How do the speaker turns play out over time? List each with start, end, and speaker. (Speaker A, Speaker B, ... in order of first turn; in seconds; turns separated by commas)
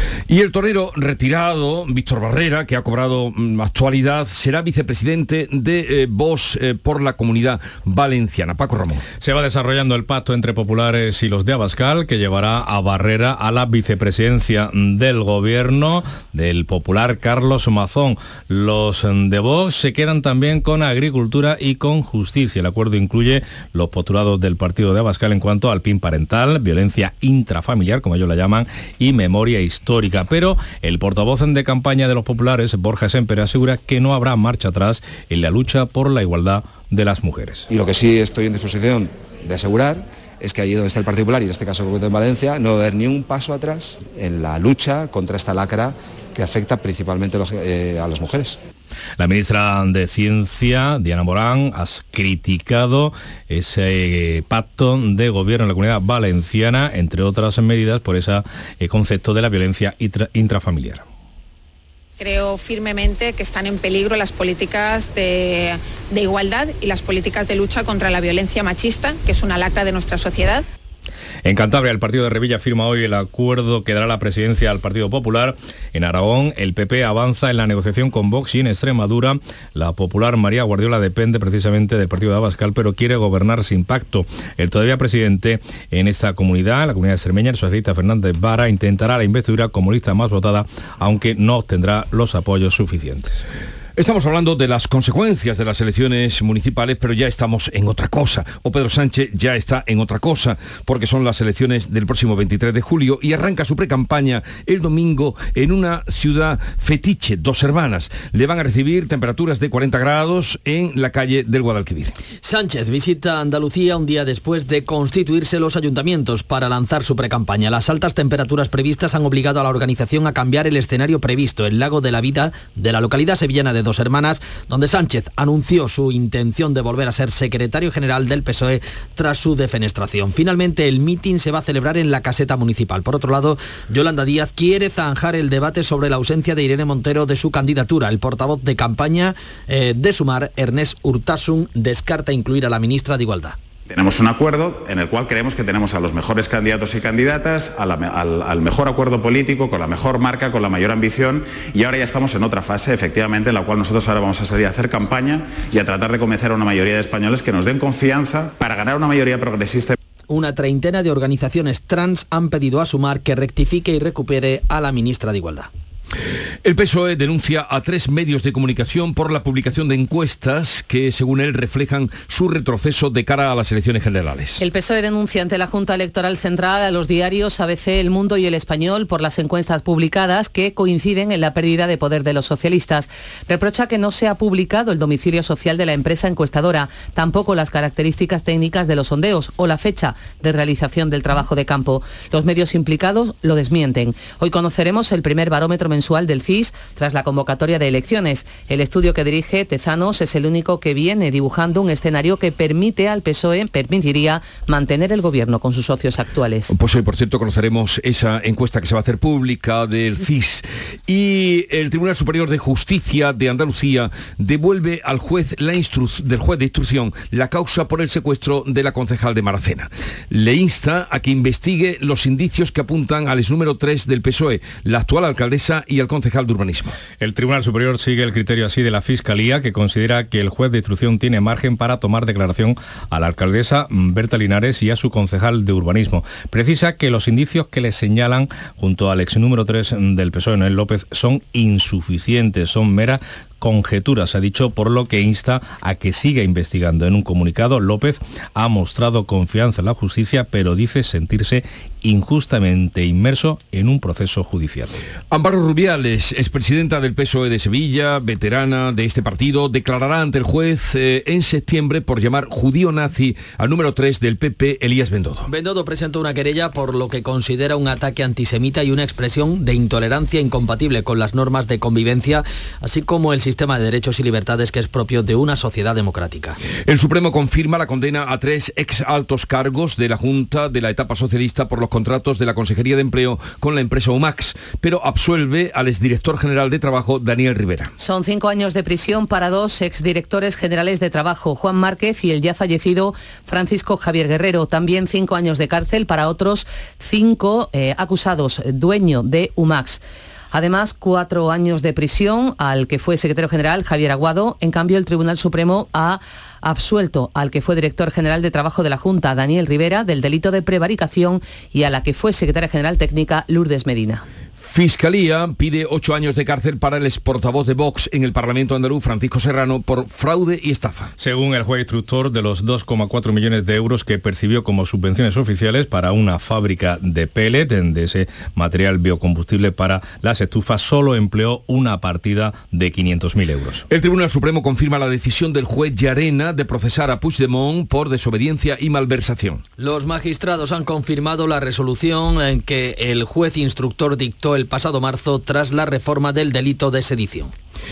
Speaker A: 0.3-9.0, Speaker B: 9.2-37.7, Speaker C: 37.7-48.6, Speaker B: 49.2-61.0, Speaker D: 62.2-70.6, Speaker B: 71.4-93.4, Speaker A: 94.0-112.1, Speaker E: 112.4-143.6, Speaker F: 143.9-160.0, Speaker E: 160.3-165.7, Speaker A: 166.6-174.6, Speaker G: 174.6-206.7, Speaker A: 206.7-226.9, Speaker B: 227.2-255.0, Speaker A: 255.3-265.4, Speaker E: 265.5-276.6, Speaker A: 276.9-287.9, Speaker G: 288.0-300.0, Speaker G: 300.5-314.2, Speaker A: 314.6-321.1, Speaker B: 321.2-333.9, Speaker A: 333.9-339.6, Speaker E: 339.8-347.5